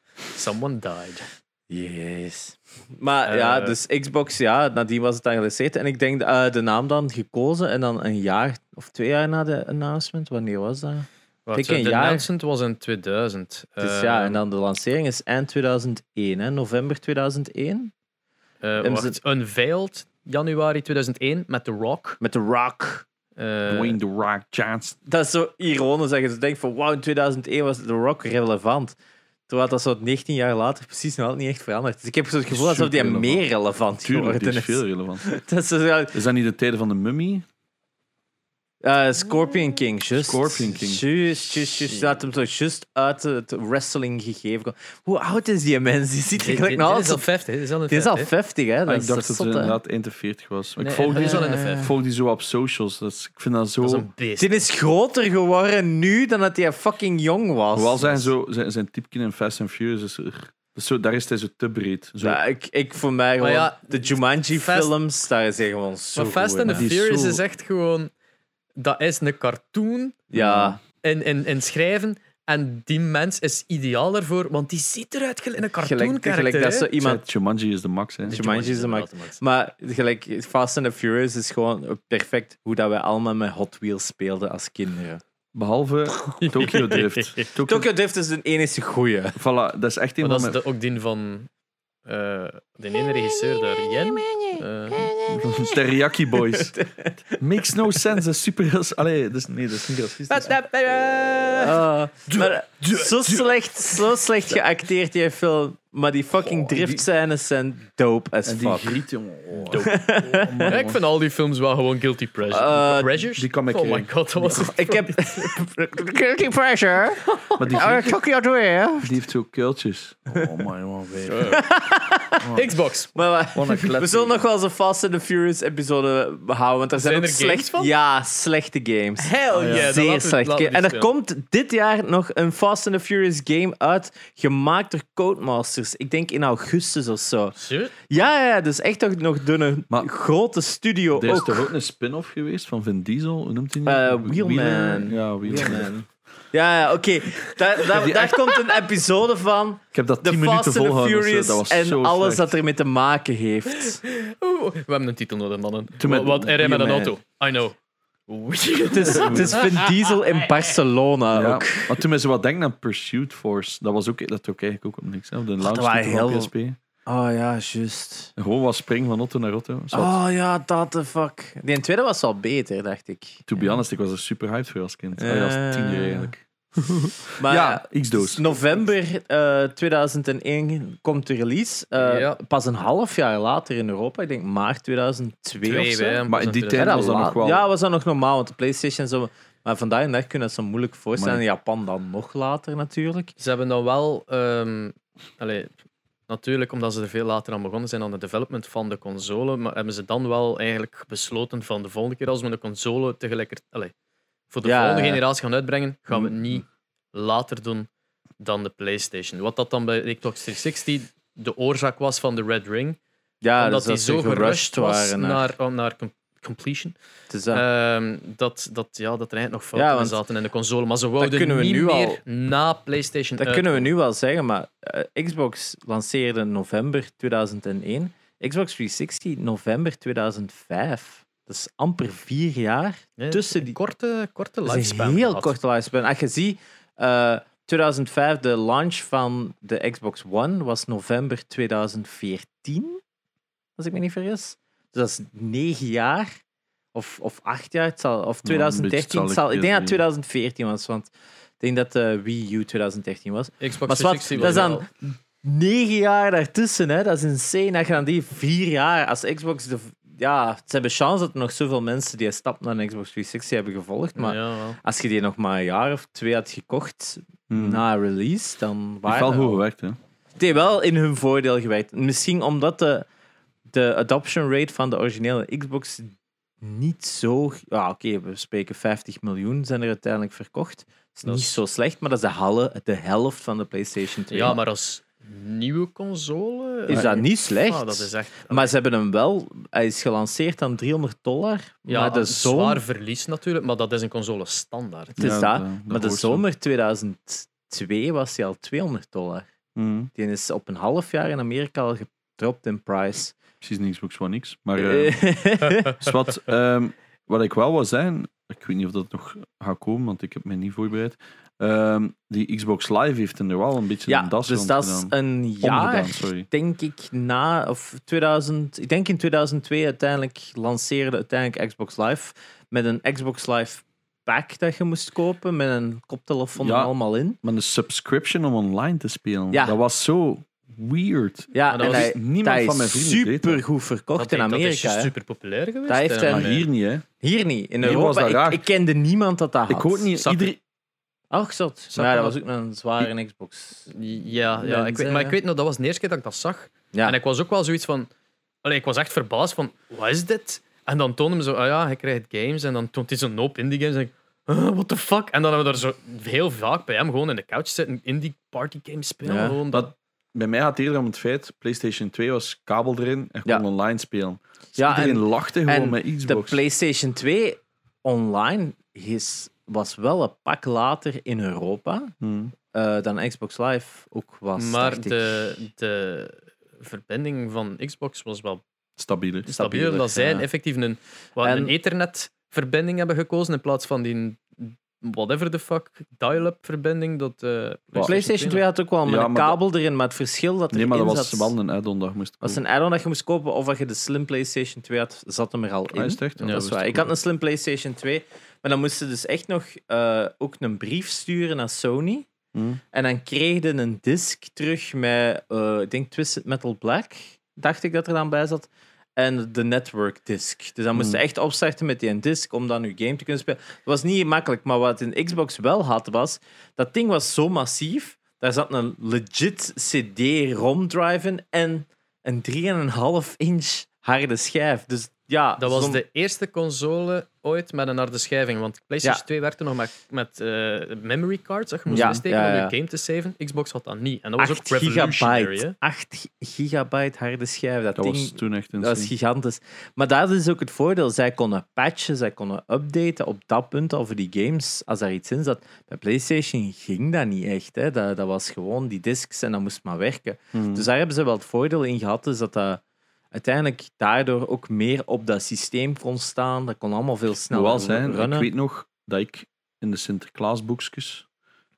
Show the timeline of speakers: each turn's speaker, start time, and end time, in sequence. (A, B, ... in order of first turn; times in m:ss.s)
0:00.3-0:01.3 A
0:01.7-0:12.3 B
0:03.3-0:03.8 A
0:11.5-0:14.4 A
0:13.8-0:17.9 B
0:18.6-0:22.2 A
0:18.8-0:19.2 B
0:22.2-0:23.0 B
0:23.4-0:24.0 A
0:23.6-0:25.0 C
0:25.0-0:29.0 B
0:29.5-0:36.2 B
0:32.5-0:33.4 C
0:34.0-0:35.2 C
0:36.1-0:37.4 C
0:38.8-0:47.2 B
0:40.1-0:41.0 C
0:46.4-0:48.3 A
0:47.9-0:49.8 B
0:48.9-0:54.1 C
0:50.8-0:51.9 A
0:51.1-0:51.9 B
0:53.8-0:54.6 A
0:54.4-0:58.3 B
0:57.7-1:02.4 C
1:02.2-1:06.9 B
1:03.4-1:04.9 A
1:06.1-1:08.1 A
1:06.7-1:07.4 C
1:08.8-1:10.3 A
1:10.3-1:10.8 B
1:10.3-1:10.8 C
1:10.9-1:16.9 A
1:15.8-1:17.2 B
1:17.0-1:18.4 C
1:18.3-1:19.4 A
1:18.3-1:25.2 B
1:25.5-1:27.9 C
1:26.4-1:27.5 A
1:27.7-1:29.4 B
1:29.4-1:30.6 C
1:30.2-1:31.5 A
1:32.0-1:35.1 A
1:33.3-1:37.4 B
1:35.3-1:36.8 C
1:37.4-1:41.7 C
1:40.3-1:41.7 A
1:41.5-1:49.0 B
1:42.3-1:43.6 C
1:46.4-1:47.0 C
1:48.4-1:51.0 C
1:49.7-1:50.7 B
1:49.7-1:55.6 A
1:52.5-1:53.2 B
1:53.4-1:54.2 C
1:54.4-1:59.2 B
1:57.3-1:57.9 A
1:57.6-1:58.2 C
1:59.0-2:01.6 C
2:01.3-2:01.6 A
2:01.4-2:02.4 B
2:02.4-2:02.7 C
2:02.5-2:03.1 A
2:03.1-2:17.6 B
2:03.5-2:04.4 C
2:07.0-2:07.9 A
2:09.2-2:11.1 A
2:09.5-2:09.9 C
2:17.6-2:18.1 A
2:18.1-2:21.7 B
2:21.1-2:25.9 C
2:23.8-2:34.0 B
2:28.0-2:28.3 C
2:29.9-2:32.5 C
2:34.0-2:37.8 A
2:36.0-2:36.9 C
2:36.6-2:37.1 B
2:38.3-2:39.9 A
2:38.8-2:42.0 B
2:39.0-2:39.6 C
2:41.3-2:46.8 C
2:45.6-2:46.5 B
2:47.0-2:48.3 B
2:48.4-2:50.2 C
2:49.9-2:53.8 B
2:53.4-2:58.5 C
2:55.2-2:56.3 B
2:57.4-3:06.2 B
3:02.0-3:02.4 A
3:05.6-3:07.0 A
3:06.3-3:07.7 C
3:06.7-3:13.3 B
3:11.2-3:11.4 C
3:13.4-3:15.7 A
3:16.3-3:23.9 A
3:24.5-3:33.0 A
3:24.6-3:25.2 B
3:33.4-3:35.5 B
3:33.6-3:37.0 A
3:37.3-3:37.6 B
3:37.5-3:43.9 A
3:39.7-3:40.2 B
3:41.2-3:42.2 B
3:43.4-3:53.8 B
3:53.2-3:55.5 A
3:54.6-4:03.0 B
4:03.8-4:06.3 B
4:06.9-4:29.6 B
4:08.4-4:10.0 C
4:13.6-4:14.8 A
4:14.4-4:14.6 C
4:24.2-4:24.8 A
4:27.5-4:27.8 C
4:29.0-4:30.0 C
4:30.4-4:33.1 B
4:33.7-4:44.6 B
4:41.2-4:41.6 A
4:44.3-4:48.7 A
4:46.9-4:52.8 B
4:51.9-4:55.3 A
4:55.2-4:56.4 C
4:55.2-4:59.5 B
4:59.8-5:00.1 C
5:00.1-5:03.4 B
5:03.6-5:05.2 C
5:04.8-5:06.0 B
5:05.9-5:16.5 C
5:14.1-5:27.4 B
5:26.6-5:33.6 C
5:29.5-5:29.8 B
5:31.5-5:35.1 B
5:31.7-5:32.1 A
5:34.2-5:36.6 A
5:35.9-5:36.6 B
5:36.3-5:37.0 C
5:37.2-5:40.1 B
5:37.8-5:38.6 C
5:39.7-5:40.6 C
5:40.2-5:40.5 A
5:41.3-5:43.9 B
5:41.9-5:42.4 A
5:43.9-5:48.1 A
5:44.6-5:45.4 B
5:48.6-5:59.9 A
5:59.2-5:59.6 B
5:59.7-6:06.6 C
6:04.8-6:12.1 B
6:12.2-6:12.5 C
6:12.7-6:15.6 B
6:14.6-6:18.6 A
6:19.0-6:20.0 C
6:19.5-6:28.6 A
6:19.5-6:20.4 B
6:21.4-6:21.7 B
6:28.0-6:31.5 B
6:29.0-6:29.6 C
6:30.7-6:32.6 C
6:32.4-6:42.3 B
6:35.9-6:37.1 C
6:36.4-6:36.7 A
6:42.5-6:42.8 C
6:42.9-7:06.0 B
6:50.9-6:51.2 C
7:05.6-7:15.8 A
7:11.9-7:12.2 C
7:11.9-7:12.7 B
7:14.4-7:32.8 B
7:18.0-7:19.1 C
7:30.5-7:30.9 C
7:33.3-7:38.5 B
7:37.5-7:41.2 C